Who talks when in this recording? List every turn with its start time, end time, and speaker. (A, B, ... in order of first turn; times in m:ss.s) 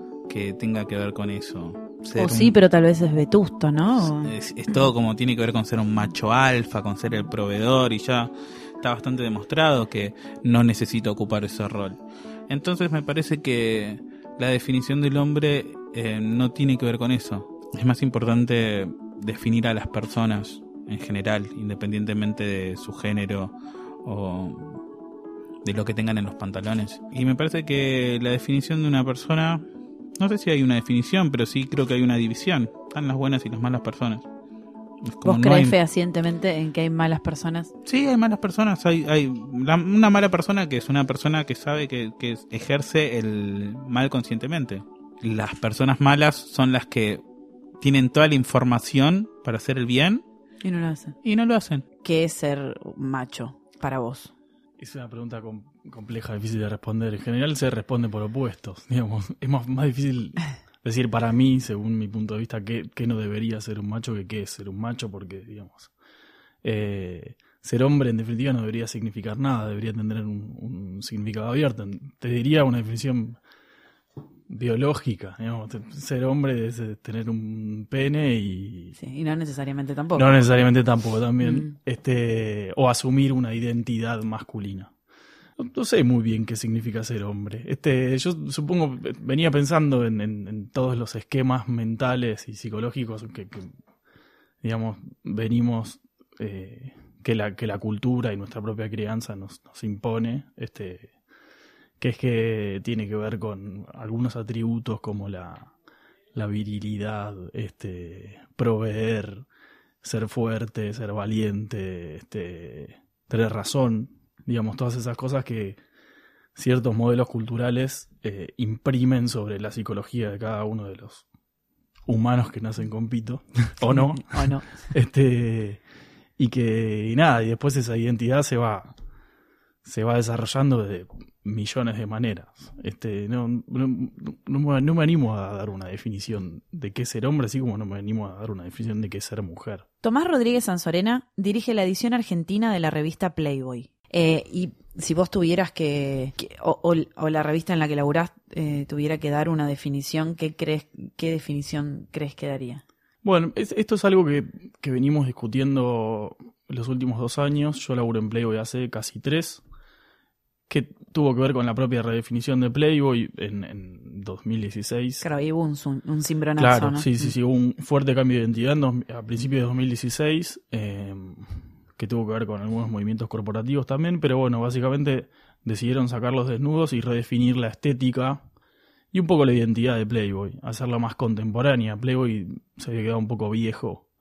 0:00.3-0:02.6 A
0:02.2-0:04.3 B
0:04.0-0:24.8 A
0:25.6-0:29.6 A
0:30.2-0:34.2 A
0:35.0-0:35.8 A
0:35.2-0:37.7 B
0:37.8-0:47.2 A
0:47.8-0:50.2 A
0:50.6-0:51.2 B
0:51.2-0:51.8 A
0:52.0-0:54.3 B
0:54.8-1:05.9 C
1:06.6-1:13.4 C
1:14.5-1:18.9 C
1:19.0-1:20.5 B
1:20.2-1:24.9 C
1:21.4-1:21.8 B
1:25.6-1:33.7 C
1:34.6-1:41.1 C
1:42.0-1:45.7 C
1:46.3-1:49.5 C
1:50.0-1:55.8 C
1:56.6-2:01.2 C
2:02.1-2:05.8 C
2:03.9-2:04.8 B
2:06.4-2:08.9 C
2:09.8-2:19.8 C
2:20.0-2:32.8 B
2:33.2-2:39.6 C
2:40.7-2:45.2 C
2:45.2-2:47.3 B
2:46.6-2:58.4 C
2:59.1-3:04.0 C